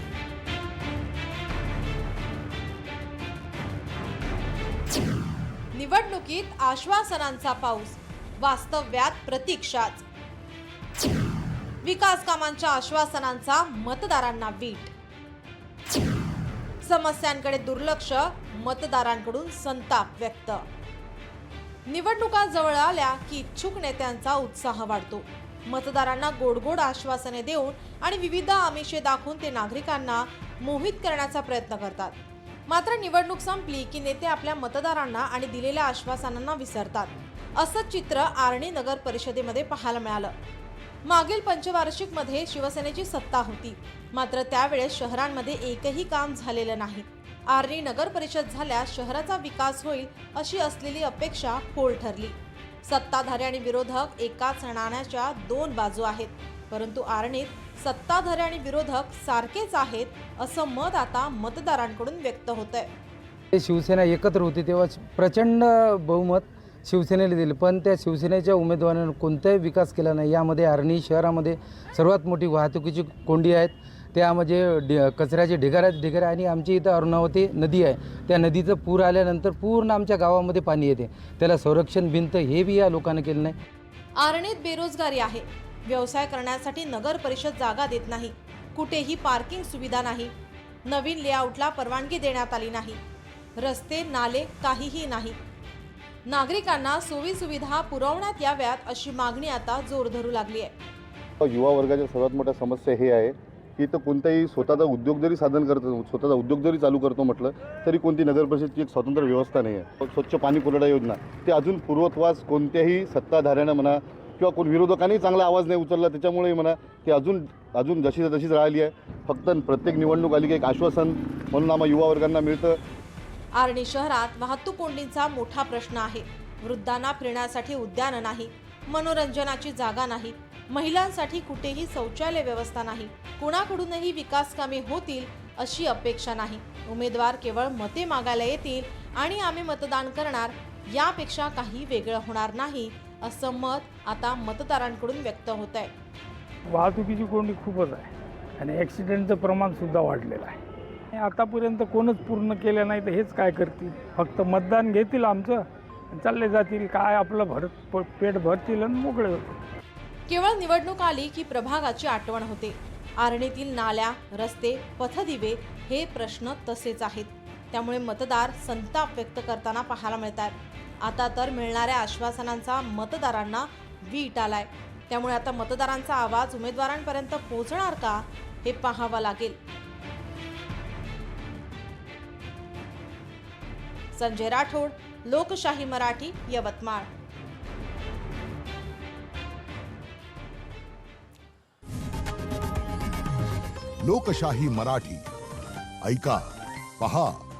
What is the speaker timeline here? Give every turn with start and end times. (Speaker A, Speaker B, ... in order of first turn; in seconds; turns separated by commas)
Speaker A: 5.7-10.1, Speaker A: 11.8-14.9, Speaker A: 16.8-20.6, Speaker A: 21.9-32.2, Speaker A: 32.7-40.3, Speaker A: 41.0-62.9, Speaker B: 63.5-83.6, Speaker A: 84.2-90.3, Speaker A: 90.9-93.0, Speaker A: 93.6-95.4, Speaker A: 96.3-100.7, Speaker C: 101.4-122.8, Speaker A: 123.5-145.9, Speaker D: 146.7-150.6, Speaker D: 151.1-159.5, Speaker A: 160.3-179.6, Speaker A: 184.1-187.1, Speaker E: 194.0-195.3, Speaker E: 196.0-196.5, Speaker E: 197.0-197.4